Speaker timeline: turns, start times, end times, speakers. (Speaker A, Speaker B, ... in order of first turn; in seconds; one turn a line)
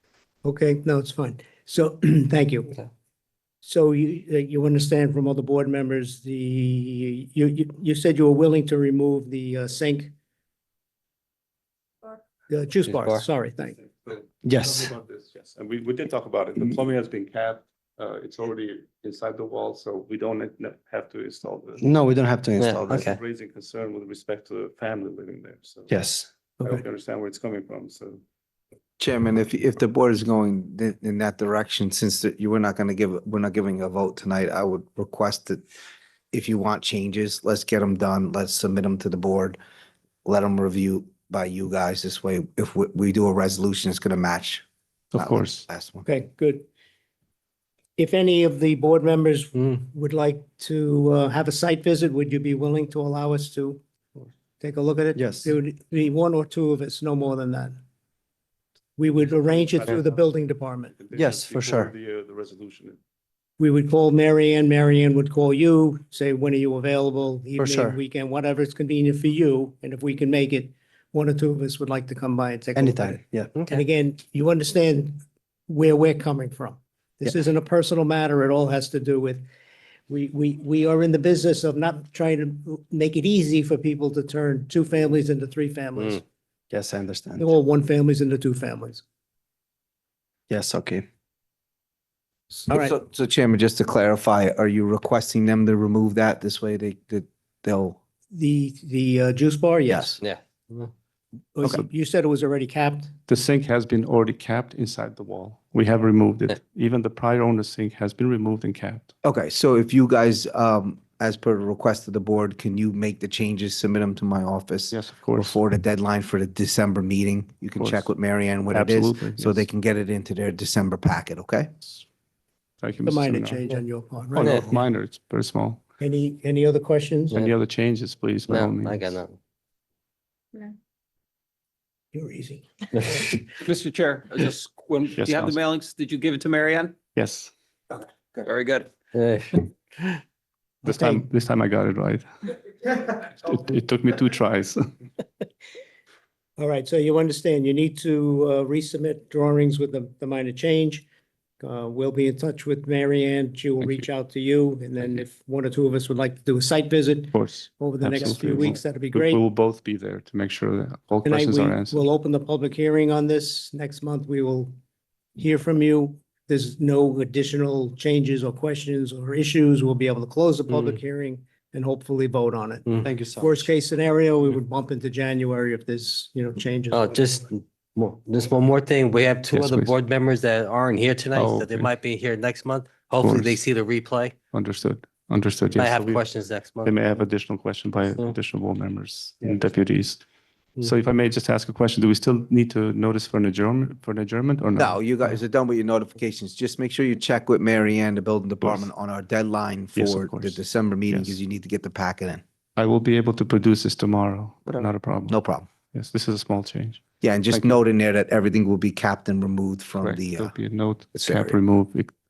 Speaker A: 0.4-2.8
Speaker A: 3.6-10.1
Speaker A: 12.5-13.8
Speaker B: 12.9-13.2
Speaker C: 13.9-21.9
Speaker D: 14.4-14.9
Speaker D: 21.8-23.1
Speaker B: 22.6-23.2
Speaker C: 22.8-25.9
Speaker D: 25.9-26.3
Speaker C: 26.6-28.2
Speaker E: 29.0-35.6
Speaker E: 36.3-39.6
Speaker E: 40.2-44.6
Speaker C: 45.1-45.6
Speaker E: 45.2-46.0
Speaker A: 46.0-46.7
Speaker A: 48.0-53.8
Speaker A: 54.6-57.7
Speaker D: 55.1-55.5
Speaker A: 59.0-61.0
Speaker C: 59.3-63.0
Speaker D: 61.1-61.9
Speaker A: 63.6-79.4
Speaker D: 67.6-68.0
Speaker D: 72.8-73.5
Speaker A: 80.1-86.2
Speaker D: 86.7-87.5
Speaker A: 87.4-89.0
Speaker D: 90.5-91.0
Speaker A: 92.5-92.9
Speaker E: 92.7-98.0
Speaker A: 98.3-100.2
Speaker B: 100.2-100.9
Speaker A: 101.5-103.1
Speaker C: 103.3-109.1
Speaker E: 109.2-121.7
Speaker C: 114.9-115.5
Speaker C: 117.8-118.1
Speaker C: 118.7-119.7
Speaker C: 122.8-123.7
Speaker A: 123.0-124.8
Speaker C: 124.3-125.8
Speaker B: 124.4-124.7
Speaker A: 126.0-127.4
Speaker C: 127.3-129.2
Speaker B: 128.5-129.4
Speaker A: 132.1-133.4
Speaker F: 133.6-137.0
Speaker C: 135.1-135.6
Speaker C: 137.1-137.5
Speaker F: 138.3-138.9
Speaker B: 139.1-139.7
Speaker C: 140.8-144.8
Speaker A: 140.8-141.2
Speaker A: 146.6-151.1
Speaker A: 151.6-159.4
Speaker C: 157.3-162.1
Speaker A: 161.2-164.7
Speaker A: 165.3-177.4
Speaker B: 170.7-170.9
Speaker D: 173.0-173.7
Speaker B: 176.9-184.3
Speaker C: 179.5-180.0
Speaker C: 181.3-181.9
Speaker C: 183.2-183.6
Speaker C: 184.5-186.2
Speaker B: 185.8-187.0
Speaker C: 186.8-190.2
Speaker C: 190.8-195.4
Speaker E: 194.8-202.4
Speaker C: 198.6-198.9
Speaker C: 199.9-201.4
Speaker C: 202.8-207.8
Speaker E: 205.3-205.7
Speaker E: 207.2-210.5
Speaker C: 210.0-212.1
Speaker E: 211.1-211.6